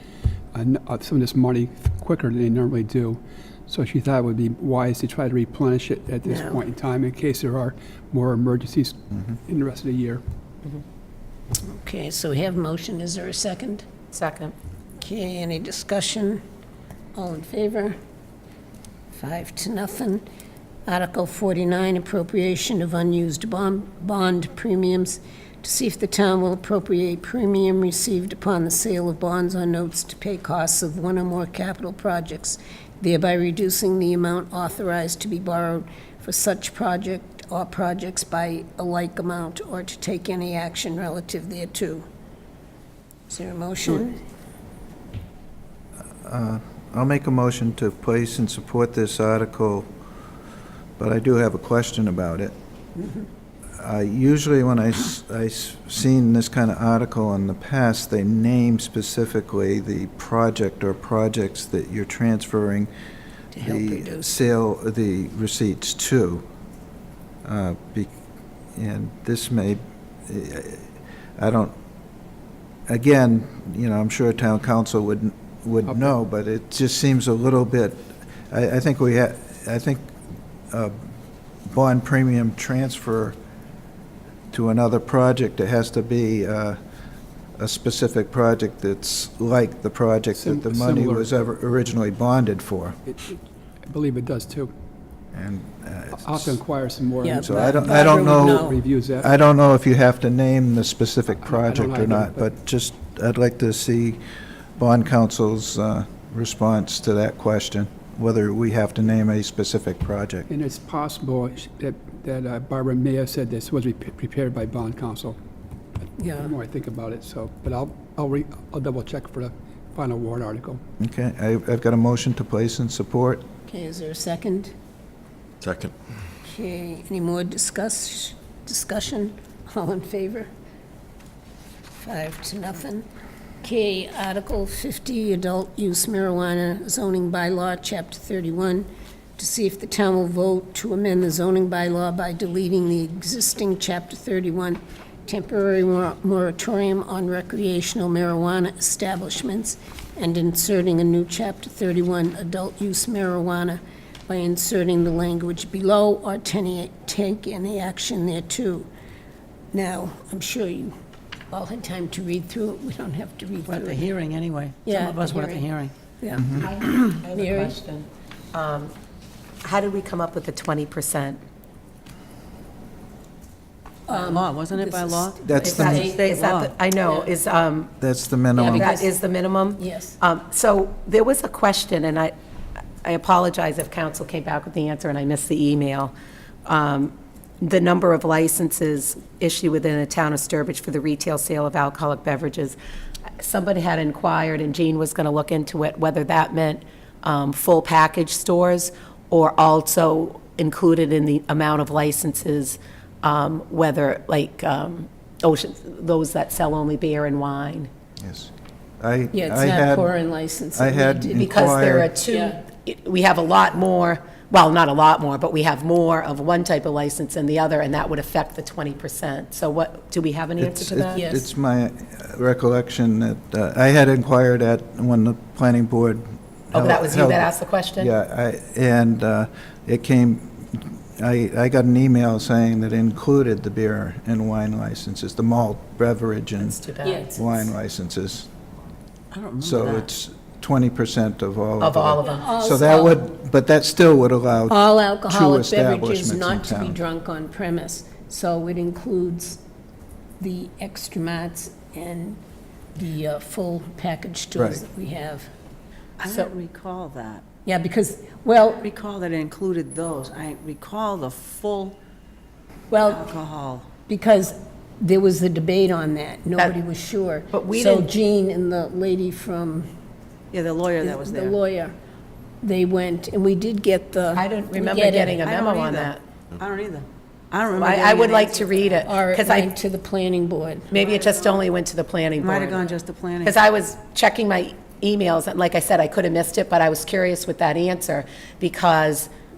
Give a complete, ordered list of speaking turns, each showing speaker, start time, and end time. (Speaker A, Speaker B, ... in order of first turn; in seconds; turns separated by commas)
Speaker A: 0.5-10.2, Speaker B: 6.2-6.6, Speaker B: 11.6-13.9, Speaker C: 14.1-14.5, Speaker B: 15.0-16.4, Speaker B: 17.1-18.0, Speaker B: 19.1-20.2, Speaker B: 20.9-42.0, Speaker B: 43.3-44.2, Speaker D: 46.2-49.9, Speaker D: 51.0-52.5, Speaker B: 53.0-53.2, Speaker D: 53.8-62.9, Speaker B: 63.5-64.4, Speaker D: 63.6-66.4, Speaker D: 67.4-68.1, Speaker D: 68.8-70.8, Speaker D: 71.4-71.7, Speaker D: 72.9-80.1, Speaker A: 75.8-76.2, Speaker D: 80.7-81.1, Speaker D: 81.7-83.4, Speaker D: 84.5-86.8, Speaker D: 87.6-93.0, Speaker A: 90.3-91.3, Speaker A: 93.1-94.7, Speaker D: 95.3-96.6, Speaker A: 96.1-99.3, Speaker B: 97.2-98.6, Speaker D: 97.4-104.2, Speaker A: 101.4-102.5, Speaker D: 104.8-110.5, Speaker A: 110.5-115.4, Speaker A: 116.1-120.8, Speaker B: 116.2-116.5, Speaker D: 121.0-123.4, Speaker B: 123.7-124.7, Speaker B: 126.4-130.5, Speaker B: 131.9-133.1, Speaker B: 133.6-158.9, Speaker B: 159.7-160.9, Speaker B: 161.5-164.1, Speaker E: 163.7-165.9, Speaker B: 164.8-165.7, Speaker B: 166.2-167.7, Speaker C: 166.5-168.9, Speaker C: 169.6-171.4, Speaker B: 174.1-176.2, Speaker E: 174.1-176.7, Speaker D: 175.4-176.1, Speaker C: 175.5-177.9, Speaker D: 178.0-178.9, Speaker C: 178.5-182.3, Speaker B: 178.7-179.1, Speaker B: 179.8-180.2, Speaker C: 183.0-186.1, Speaker C: 186.7-192.8, Speaker C: 193.4-207.9, Speaker D: 208.2-210.1, Speaker B: 209.3-212.6, Speaker D: 210.7-212.1, Speaker C: 211.4-221.2, Speaker D: 220.6-236.8, Speaker B: 221.1-221.5, Speaker C: 226.7-228.1, Speaker C: 236.6-237.3, Speaker B: 237.0-237.7, Speaker D: 237.3-238.5, Speaker E: 239.3-240.1, Speaker D: 239.6-247.0, Speaker C: 241.8-242.5, Speaker B: 242.2-243.3, Speaker B: 244.7-249.6, Speaker B: 250.4-252.4, Speaker B: 252.9-255.5, Speaker D: 254.6-254.8, Speaker E: 256.2-257.4, Speaker B: 257.6-258.9, Speaker E: 258.8-262.0, Speaker B: 262.9-263.2, Speaker E: 263.0-263.9, Speaker B: 264.1-269.9, Speaker C: 267.5-268.1, Speaker E: 270.5-271.6, Speaker B: 271.0-271.9, Speaker B: 272.6-275.4, Speaker C: 274.3-276.2, Speaker E: 275.1-279.0, Speaker C: 277.7-279.7, Speaker B: 279.0-280.9, Speaker C: 280.9-282.9, Speaker E: 282.4-283.6, Speaker C: 283.4-289.3